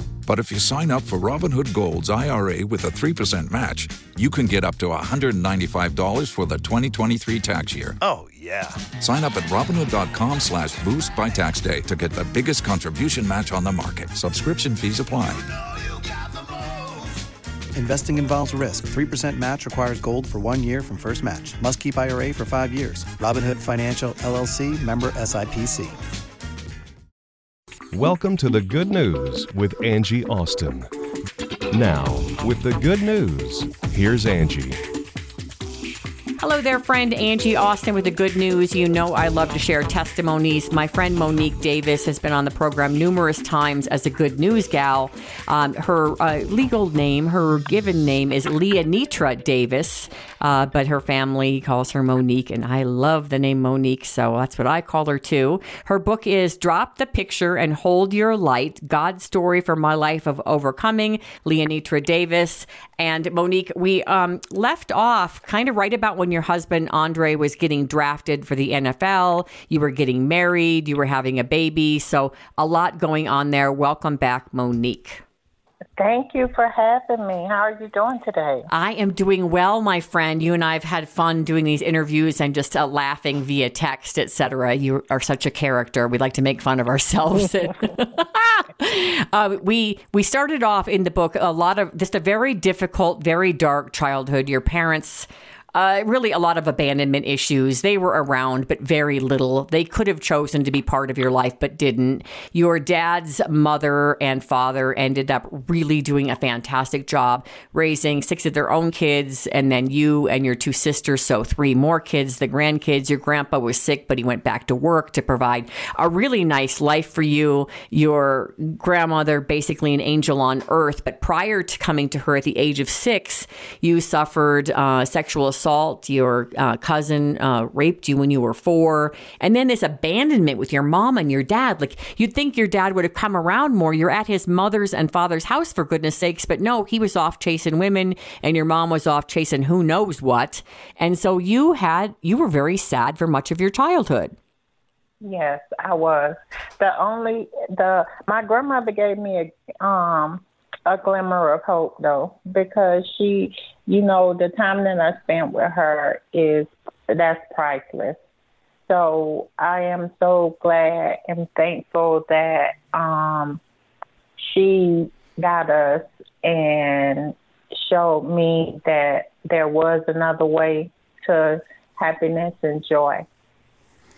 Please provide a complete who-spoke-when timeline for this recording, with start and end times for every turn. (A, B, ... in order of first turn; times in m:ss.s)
0:00.3-0:08.0 A
0:08.0-0:08.8 B
0:09.0-0:15.4 A
0:15.6-0:17.2 B
0:17.7-0:26.0 B
0:27.9-0:30.9 C
0:31.7-0:34.8 C
0:36.4-1:15.2 D
1:16.0-1:18.7 E
1:18.7-2:24.3 D
2:25.2-2:38.2 E
2:38.9-2:43.6 E
2:44.4-2:53.3 E